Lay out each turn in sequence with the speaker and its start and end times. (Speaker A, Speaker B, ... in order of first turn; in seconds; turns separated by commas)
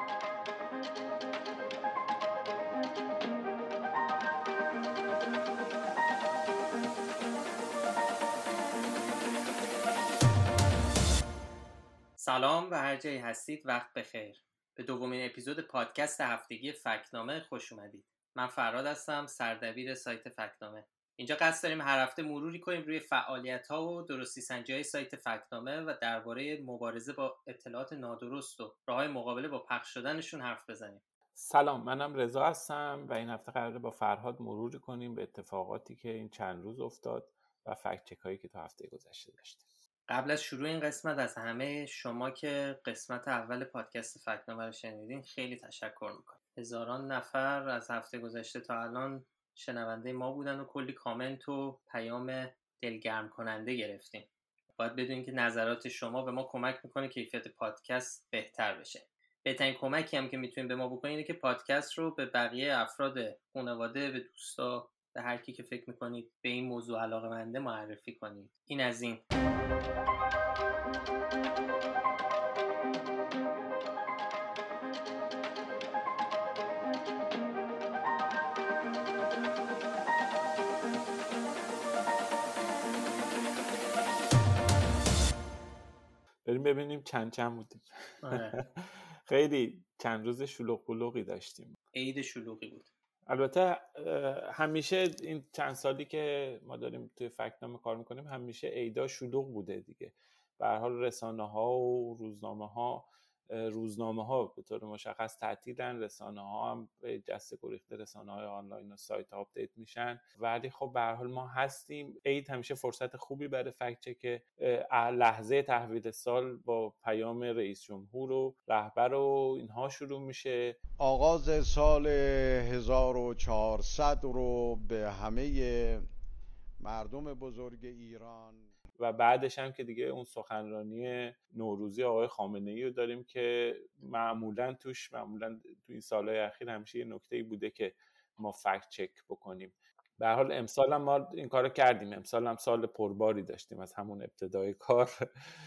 Speaker A: 12.2-31.0, Speaker B: 31.4-39.6, Speaker A: 40.1-54.3, Speaker A: 54.8-69.2, Speaker B: 86.5-91.8, Speaker A: 88.2-88.6, Speaker A: 91.9-92.9, Speaker B: 93.3-120.8, Speaker C: 121.0-126.1, Speaker C: 126.8-128.7, Speaker B: 129.0-145.3